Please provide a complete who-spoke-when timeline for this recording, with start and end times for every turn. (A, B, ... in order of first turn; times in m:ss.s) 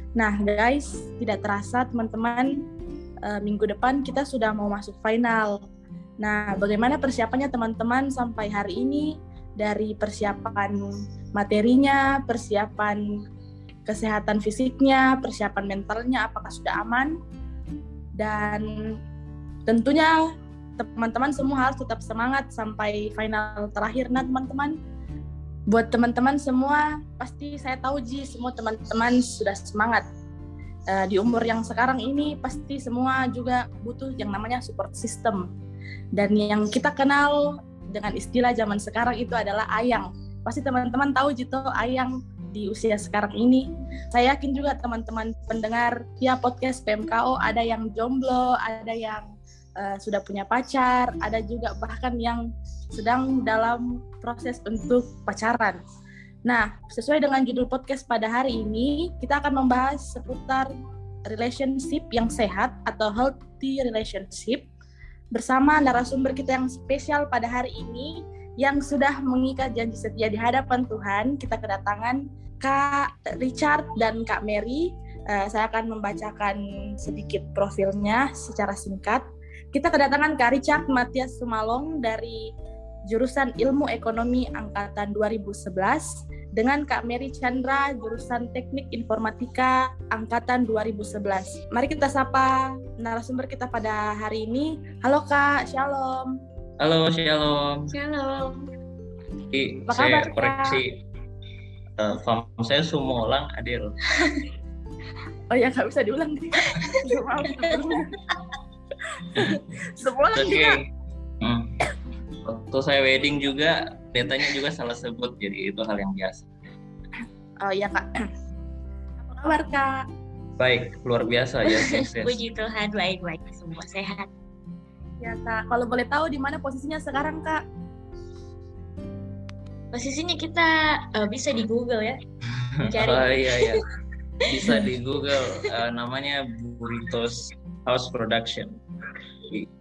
0:00.2-0:02.5 A
0:03.2-0:05.6 A
0:06.2-0:09.1 A
0:09.6-0:10.8 A
0:11.4-0:13.0 A
0:13.9-0:17.2 A
0:18.2-0:18.7 A
0:19.7-0:20.1 A
0:20.8-0:24.8 A
0:25.7-0:30.0 A
0:30.9-0:35.5 A
0:36.2-0:55.8 A
0:56.5-1:00.7 A
1:01.3-1:04.6 A
1:05.3-1:22.4 A
1:23.1-1:36.3 A
1:36.8-1:37.9 B
1:37.9-1:38.6 C
1:39.5-1:41.0 B
1:39.9-1:40.8 A
1:42.0-1:44.0 B
1:45.5-1:48.1 A
1:46.7-1:47.0 C
1:49.4-1:50.8 A
1:50.4-1:50.8 B
1:51.4-1:51.7 B
1:52.4-1:56.5 B
1:57.6-1:58.2 A
1:59.2-2:00.0 A
2:00.6-2:02.3 B
2:01.7-2:04.3 C
2:05.2-2:07.6 A
2:09.9-2:12.2 C
2:12.8-2:13.8 C
2:13.0-2:13.8 B
2:14.5-2:18.8 B